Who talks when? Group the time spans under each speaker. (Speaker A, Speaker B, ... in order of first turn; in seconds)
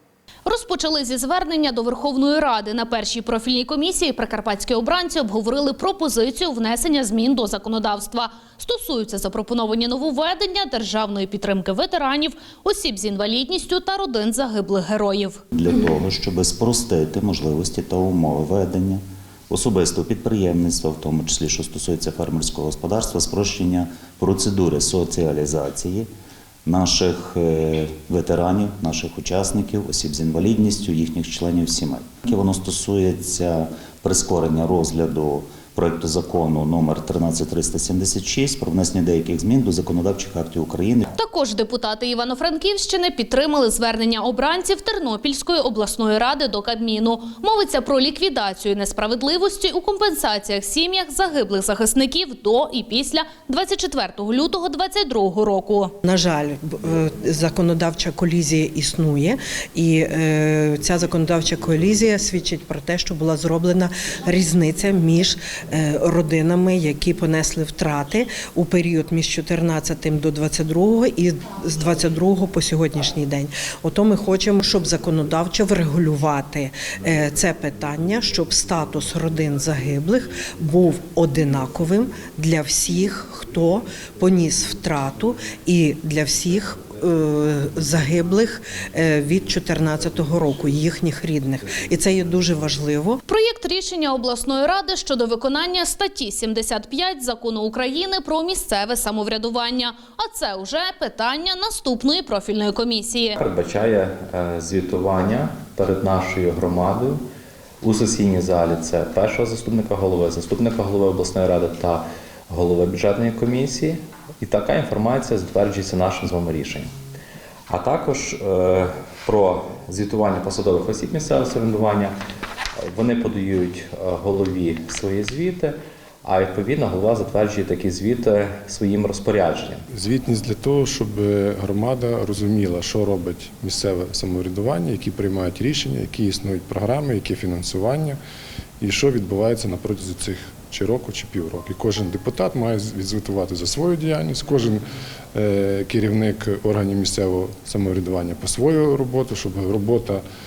Speaker A: 0.5-15.4, 41.1-55.9, 93.3-103.4
Speaker B: 15.5-26.1, 26.6-41.1
Speaker C: 56.0-93.2
Speaker D: 103.4-107.2, 107.8-116.9, 117.7-122.2, 122.8-129.8
Speaker E: 129.9-138.2, 138.8-144.8, 145.3-150.2